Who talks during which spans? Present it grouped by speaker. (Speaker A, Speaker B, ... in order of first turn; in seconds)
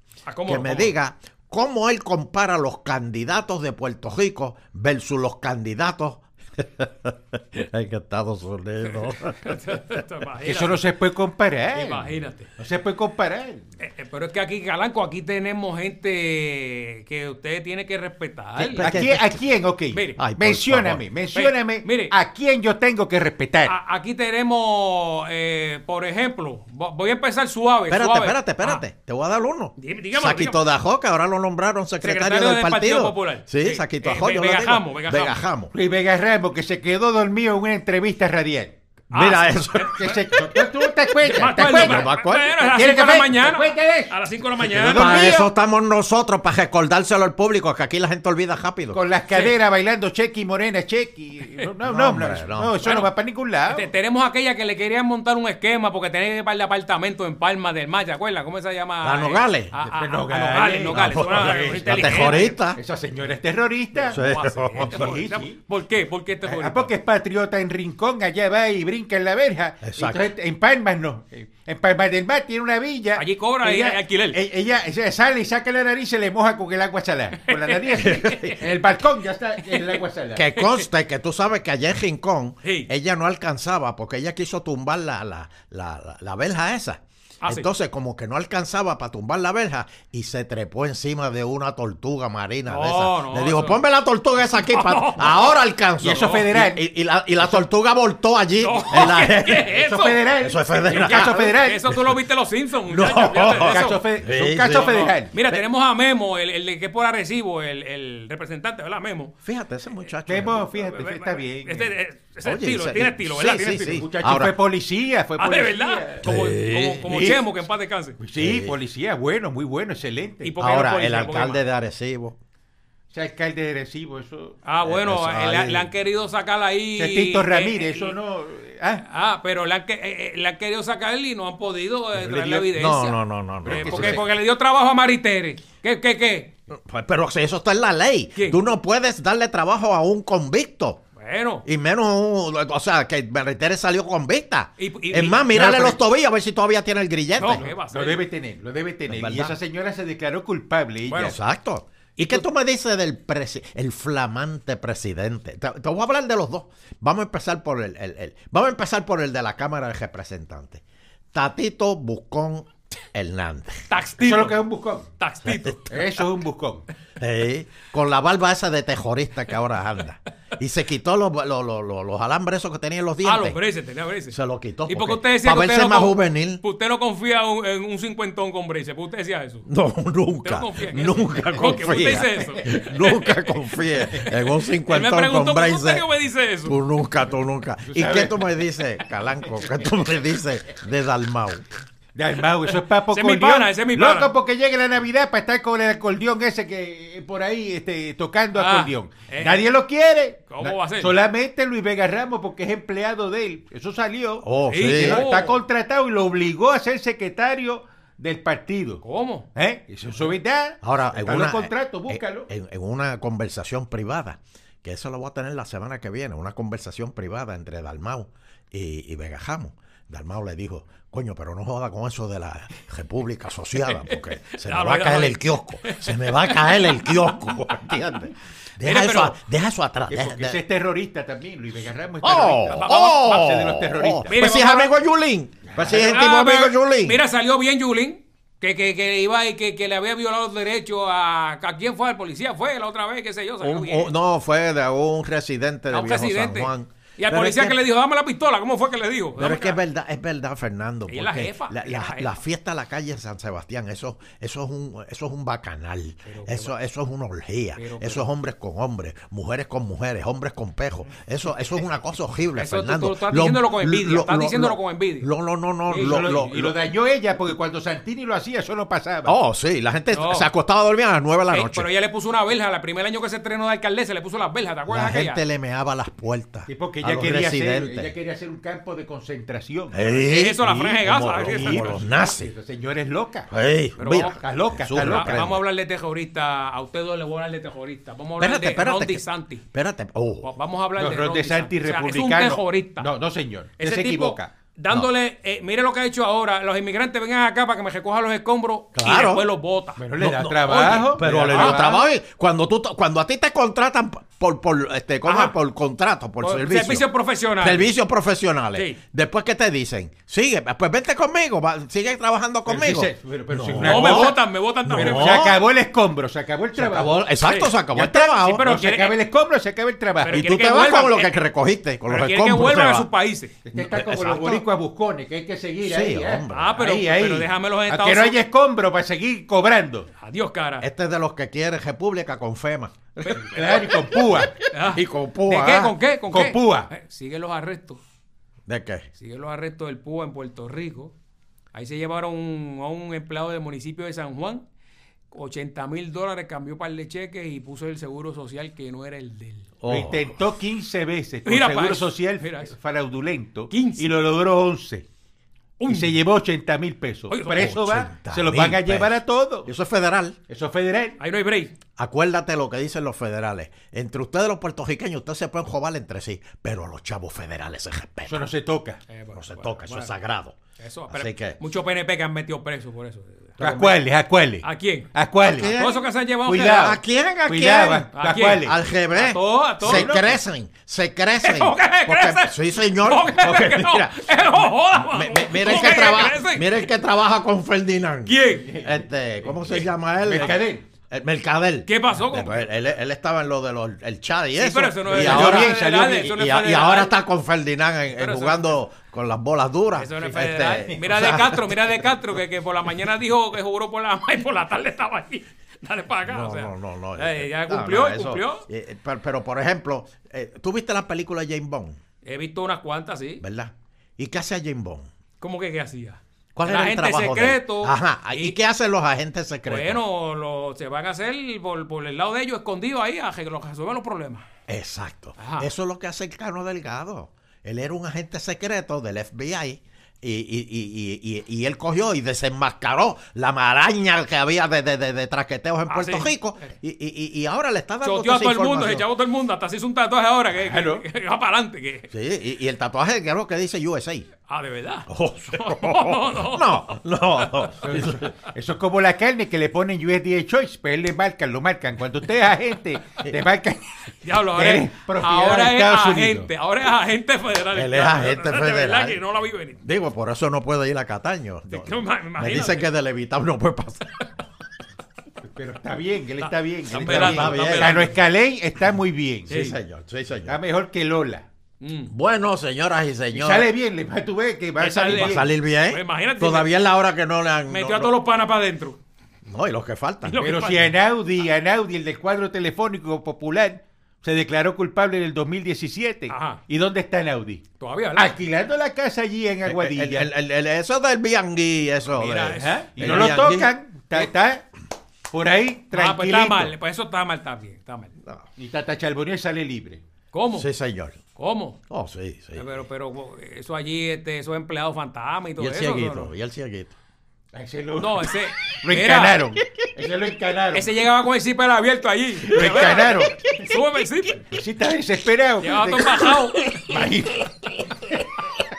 Speaker A: 0.2-0.9, 8.8-10.8, 11.7-12.5, 13.8-18.9, 19.9-20.2, 21.3-22.1, 23.6-28.8, 29.8-30.6, 32.0-35.4, 39.1-40.5, 41.2-45.4, 52.8-53.1, 53.7-62.6, 64.0-66.9, 73.2-74.4, 77.4-78.6, 80.6-80.8, 82.6-82.9, 87.4-87.7, 92.7-93.8, 94.5-96.4, 98.6-100.2, 100.9-104.0, 104.7-109.3, 110.5-114.0, 115.4-118.2, 120.4-121.6, 124.6-128.2, 129.0-136.5, 138.3-138.6, 141.2-141.6, 144.8-145.8, 147.4-148.2, 151.1-151.3, 163.9-164.6, 165.2-166.1, 173.2-179.7, 180.4-183.5, 184.1-186.8, 192.7-194.3, 198.5-199.6, 200.5-201.2, 204.7-205.6, 209.0-209.5, 223.9-227.5, 228.8-229.4, 232.7-233.4, 234.3-234.9, 235.8-244.1, 245.9-249.8, 251.1-252.4, 256.2-256.7, 257.8-258.2, 262.5-265.3, 265.9-266.4, 270.1-270.5, 271.5-275.4, 280.2-281.9, 284.0-284.4, 284.9-289.6, 290.4-293.1, 293.8-301.9, 305.2-305.5, 306.4-307.9, 308.7-309.0, 313.8-315.5, 317.4-317.7, 318.3-319.2, 320.2-321.3, 322.1-323.5, 326.5-328.4, 330.2-330.9, 333.2-333.8, 334.7-338.0, 339.1-341.1, 341.7-344.6, 345.3-349.7, 351.4-352.7, 353.7-354.1, 355.8-356.1, 357.3-357.8, 361.2-361.7, 369.1-370.1, 370.8-374.0, 374.6-376.9, 378.1-380.2, 381.4-386.8, 388.2-388.7, 391.9-392.7, 394.6-397.1, 398.1-398.8, 399.9-408.7, 412.2-413.4, 415.4-418.6, 419.6-424.4, 425.4-425.7, 435.9-436.3, 438.0-442.1, 444.5-447.8, 454.2-459.8, 461.7-462.9, 466.4-468.2, 469.5-469.8, 471.8-472.1, 474.8-476.7, 477.7-479.0, 480.2-480.9, 486.3-486.6, 487.8-488.3, 492.1-493.3, 495.9-498.1, 500.3-500.7, 501.4-501.8, 502.6-506.3, 508.0-509.4, 510.7-514.5, 515.6-516.6
Speaker B: 0.5-10.0, 18.6-19.4, 20.2-21.0, 27.9-35.7, 39.1-40.6, 41.7-42.5, 44.8-49.0, 51.8-52.8, 59.0-59.7, 60.9-62.8, 64.1-65.2, 69.8-70.2, 78.0-78.5, 80.3-99.7, 100.4-102.0, 102.9-105.6, 109.4-110.7, 112.4-114.5, 116.2-117.3, 118.4-118.7, 120.6-122.4, 132.7-134.2, 136.7-141.0, 141.6-147.7, 149.1-149.5, 151.1-160.8, 161.3-163.9, 165.4-165.8, 167.2-173.6, 174.3-176.6, 179.7-186.1, 186.6-191.6, 204.4-205.2, 210.8-230.6, 232.2-237.2, 243.6-247.8, 249.4-266.8, 269.2-271.9, 274.9-278.1, 279.9-282.5, 283.5-285.6, 288.4-290.5, 298.9-299.4, 300.2-307.1, 307.6-315.6, 316.8-318.7, 320.3-323.1, 323.7-324.6, 325.8-326.8, 330.8-334.0, 334.8-335.9, 338.7-339.1, 349.8-350.4, 357.5-360.4, 362.0-368.4, 369.3-370.6, 371.1-371.6, 375.4-376.0, 376.6-401.9, 406.2-412.0, 413.4-415.1, 416.5-420.0, 424.7-439.1, 442.1-444.3, 445.1-448.3, 457.7-459.2, 459.8-464.1, 466.9-468.1, 469.5-470.6, 472.1-473.7, 475.1-478.1, 479.4-480.4, 489.6-494.2, 500.5-501.2, 501.9-502.8, 505.6-506.9, 516.6-517.0
Speaker C: 10.4-13.7, 18.8-23.7, 35.7-38.7, 40.0-42.1, 42.6-45.5, 48.9-53.9, 59.8-64.2, 64.8-65.6, 66.4-80.5, 96.0-96.8, 99.0-101.9, 103.5-105.3, 110.2-111.9, 113.9-116.3, 117.0-117.4, 118.2-120.5, 123.1-125.9, 127.0-129.0, 132.1-132.7, 133.6-134.3, 145.5-145.9, 147.4-151.3, 164.2-165.1, 165.9-166.8, 187.9-188.4, 192.1-209.0, 209.5-212.5, 230.1-234.6, 235.6-236.1, 266.0-269.3, 276.7-280.0, 281.4-283.5, 284.2-285.4, 291.0-294.5, 300.0-302.0, 312.7-314.4, 314.9-317.2, 317.9-320.4, 323.6-330.1, 333.5-334.5, 336.3-336.9, 349.8-355.0, 355.9-359.7, 360.5-361.2, 368.3-369.0, 373.6-375.7, 376.4-378.8, 379.8-380.4, 388.6-389.0, 390.2-390.8, 395.1-396.3, 440.6-441.0, 447.8-456.5, 465.5-469.8, 470.5-471.4, 473.3-475.4, 480.4-487.6, 488.1-490.3, 492.6-494.6, 495.3-496.7, 498.6-500.0, 507.5-510.9, 512.5-513.4, 514.5-517.5